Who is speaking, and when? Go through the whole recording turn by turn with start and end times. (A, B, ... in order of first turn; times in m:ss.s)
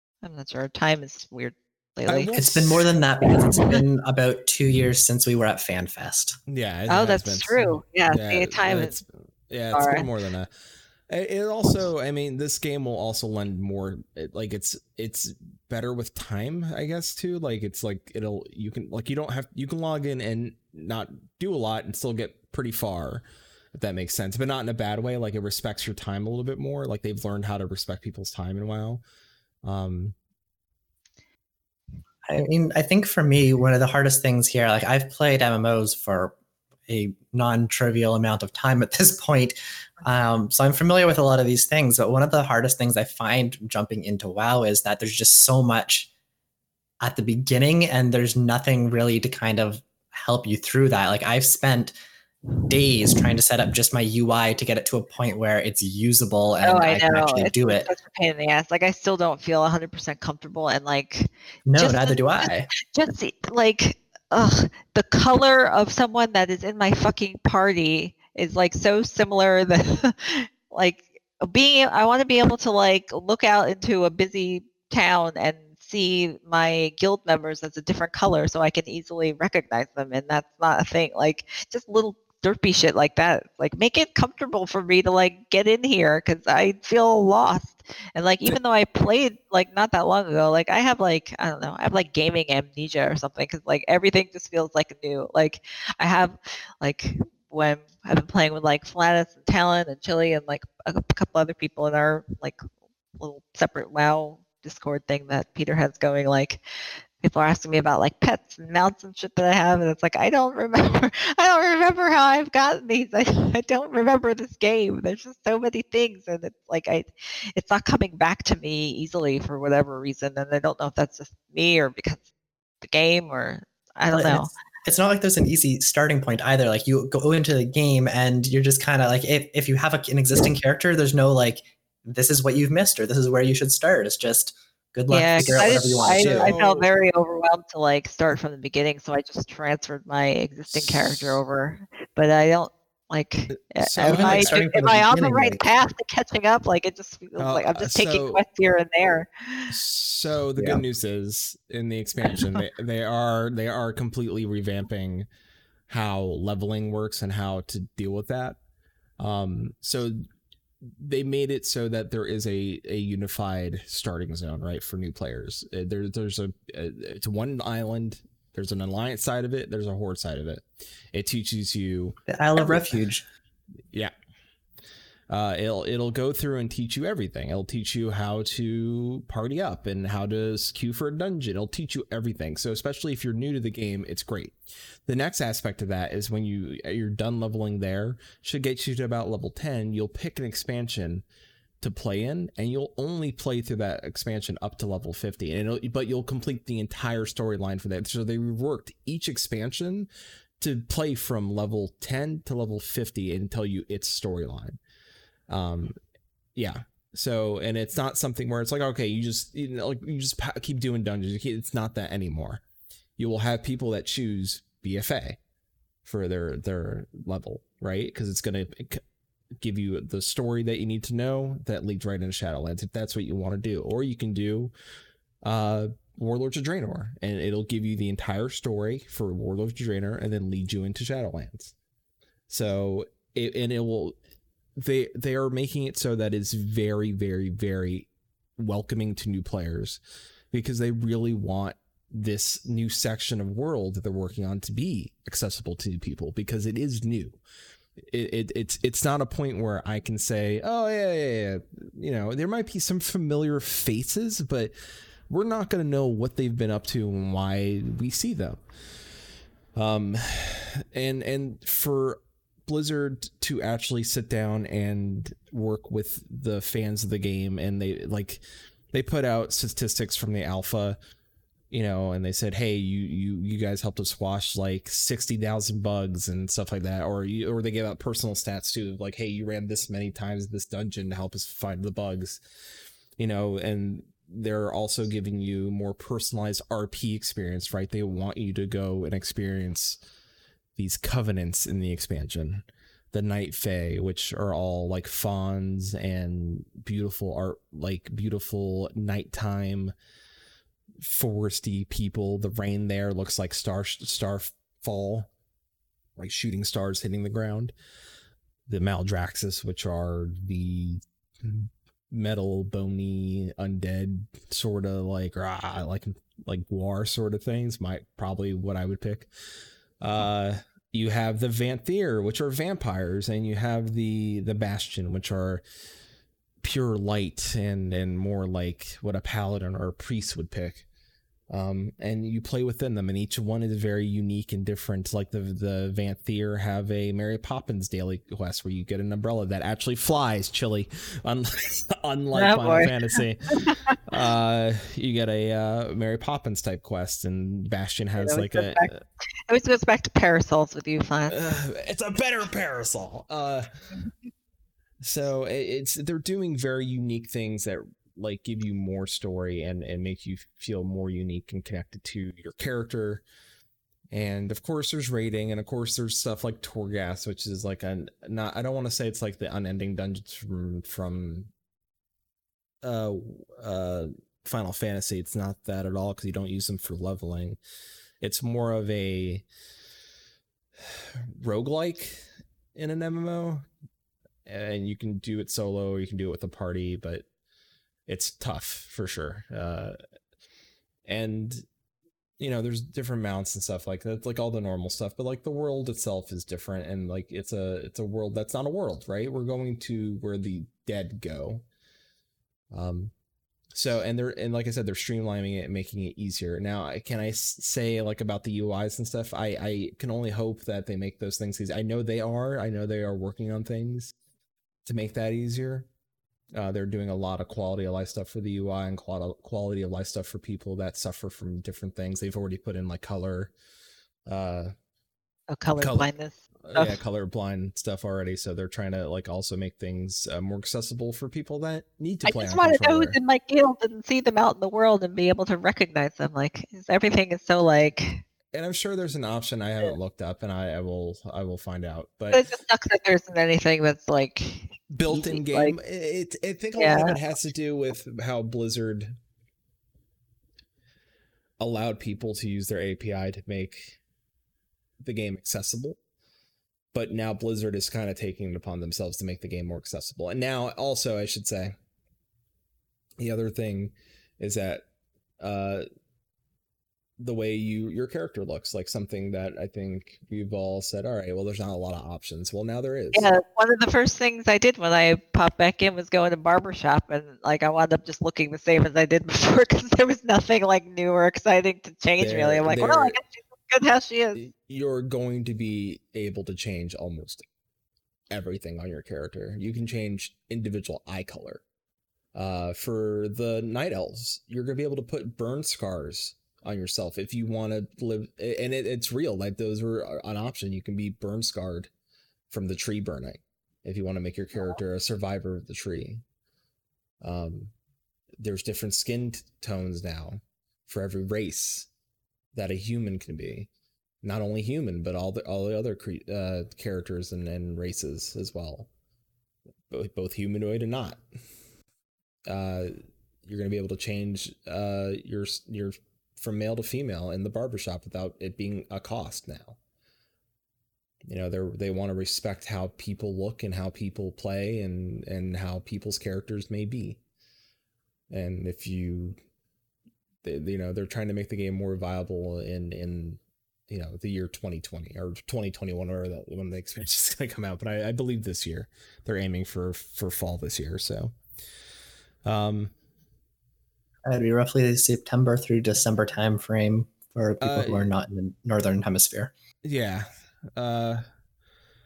0:00.2-0:02.3 A
0:02.1-0:02.8 B
0:02.4-0:06.4 C
0:06.5-0:10.5 B
0:06.9-0:09.0 A
0:09.7-0:10.1 A
0:11.1-0:29.0 B
0:29.6-0:30.1 B
0:32.2-0:36.3 C
0:36.9-0:46.1 C
0:47.0-0:52.0 C
0:52.7-0:57.9 C
0:56.6-1:42.6 A
1:01.7-1:02.7 C
1:43.2-1:46.6 A
1:47.2-2:02.2 A
2:02.8-2:04.5 A
2:04.1-2:16.5 C
2:15.1-2:29.7 A
2:16.0-2:16.9 B
2:20.7-2:21.4 B
2:23.5-2:24.6 B
2:24.0-2:25.6 C
2:27.4-2:28.4 B
2:29.7-2:35.3 B
2:30.6-2:30.8 C
2:35.9-2:38.6 B
2:39.2-2:40.2 B
2:40.8-2:53.0 B
2:52.3-2:53.2 C
2:55.3-3:11.2 B
3:11.8-3:20.1 B
3:20.6-3:24.8 B
3:25.5-3:26.0 B
3:26.6-3:32.6 B
3:33.2-3:35.4 B
3:36.0-3:39.0 B
3:39.6-3:44.7 B
3:45.4-3:51.7 B
3:52.5-3:54.2 B
3:54.8-4:00.0 B
4:00.5-4:07.4 B
4:08.0-4:14.7 B
4:15.3-4:18.6 B
4:19.8-4:31.0 B
4:31.7-4:42.4 B
4:43.2-4:50.0 B
4:50.8-4:59.9 B
5:01.0-5:05.3 B
5:06.2-5:07.7 B
5:08.7-5:19.3 B
5:20.0-5:25.6 B
5:26.6-5:30.8 B
5:31.5-5:49.0 B
5:42.3-5:44.0 A
5:48.2-5:48.9 A
5:49.5-5:51.4 A
5:51.3-5:53.6 B
5:55.0-6:03.2 B
6:04.1-6:11.5 B
6:12.8-6:17.6 B
6:18.2-6:19.4 B
6:21.4-6:23.6 B
6:24.4-6:27.2 B
6:28.1-6:30.0 B
6:31.0-6:31.6 B
6:32.4-6:41.6 B
6:42.7-6:43.1 B
6:43.7-6:54.1 B
6:54.8-6:55.9 B
6:56.5-7:03.5 B
7:04.3-7:04.7 B
7:05.5-7:07.0 A
7:05.8-7:06.1 B
7:06.6-7:13.2 B
7:12.2-7:18.2 A
7:18.5-7:22.4 B
7:22.3-7:25.7 A
7:24.9-7:29.1 B
7:26.8-7:27.2 A
7:31.6-7:34.0 B
7:35.0-7:36.0 B
7:36.9-7:41.7 B
7:43.2-7:44.8 B
7:45.4-7:45.8 B
7:47.2-7:53.3 B
7:53.1-8:04.4 A
8:02.2-8:03.2 B
8:04.4-8:07.4 B
8:08.3-8:11.6 B
8:12.3-8:21.9 B
8:22.5-8:26.2 B
8:27.2-8:27.7 B
8:28.4-8:31.9 B
8:32.5-8:33.7 B
8:34.2-8:38.9 B
8:39.9-8:41.2 B
8:42.5-8:42.9 B
8:43.4-8:49.8 B
8:51.2-8:57.2 B
8:58.3-8:59.4 B
9:00.4-9:11.4 B
9:12.4-9:12.9 B
9:14.2-9:19.5 C
9:17.6-9:18.1 B
9:19.8-9:21.2 B